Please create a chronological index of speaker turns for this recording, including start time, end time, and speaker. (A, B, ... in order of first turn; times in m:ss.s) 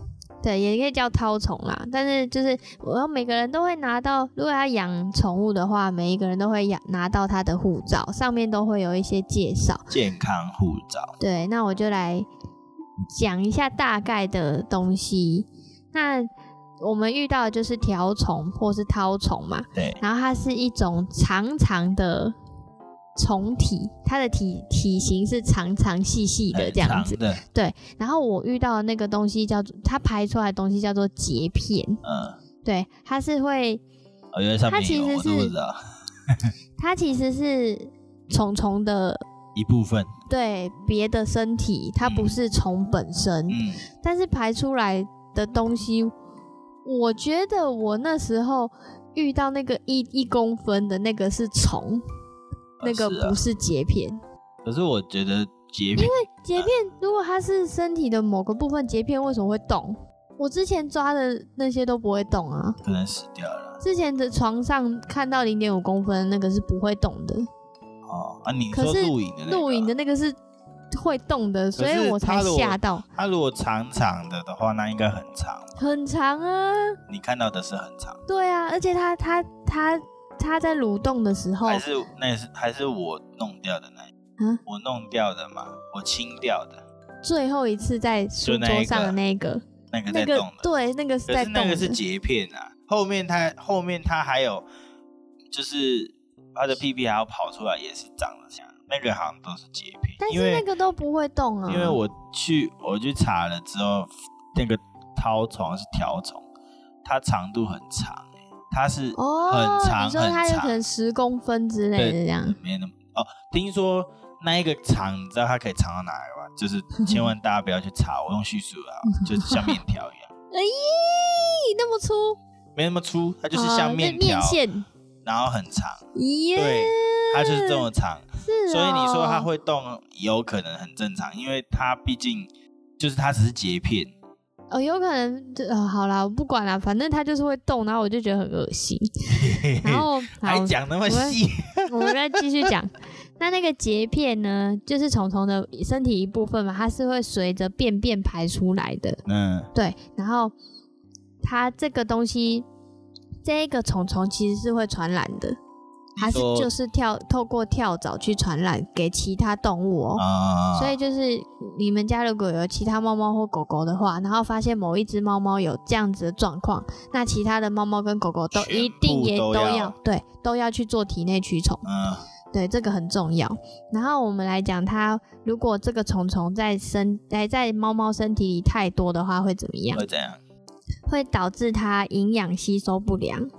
0:00.4-0:09.9 A
0:09.9-0:11.2 B
0:11.2-0:12.3 A
0:13.1-0:22.4 A
0:19.8-0:20.0 B
0:23.2-0:32.0 A
0:26.5-0:27.4 B
0:32.0-0:32.4 B
0:32.6-0:33.8 A
0:34.3-0:36.5 B
0:34.7-0:35.5 A
0:36.8-0:39.2 A
0:39.6-0:40.1 B
0:40.3-0:46.1 A
0:42.0-0:42.4 B
0:43.5-0:43.8 B
0:46.8-0:52.0 A
0:52.8-0:53.4 B
0:52.8-0:54.2 A
0:54.6-0:56.7 B
0:56.0-1:02.8 A
1:02.8-1:03.8 B
1:03.8-1:07.5 A
1:08.1-1:09.9 B
1:08.7-1:10.4 A
1:10.9-1:13.0 A
1:11.8-1:15.7 B
1:15.8-1:17.0 A
1:17.1-1:18.2 B
1:18.3-1:21.8 A
1:21.6-1:24.1 B
1:24.6-1:26.8 B
1:27.2-1:32.0 A
1:28.4-1:29.2 B
1:29.9-1:30.7 B
1:31.3-1:34.6 B
1:35.5-1:40.6 B
1:40.2-1:42.0 A
1:41.7-1:46.4 B
1:47.0-1:50.8 B
1:49.2-1:52.6 A
1:52.0-2:00.3 B
1:59.2-1:59.5 A
2:00.5-2:02.4 A
2:02.8-2:04.6 B
2:03.5-2:04.9 A
2:05.2-2:06.0 B
2:06.2-2:07.9 A
2:06.6-2:14.1 B
2:08.4-2:09.5 A
2:14.7-2:29.2 A
2:19.3-2:22.1 B
2:29.3-2:29.7 B
2:29.7-2:30.5 A
2:31.4-2:32.7 A
2:33.4-2:35.6 A
2:36.2-2:36.7 B
2:36.2-2:51.8 A
2:40.2-2:41.0 B
2:48.5-2:50.0 B
2:51.8-2:52.2 B
2:52.5-3:00.0 A
2:59.9-3:00.4 B
3:01.1-3:03.5 A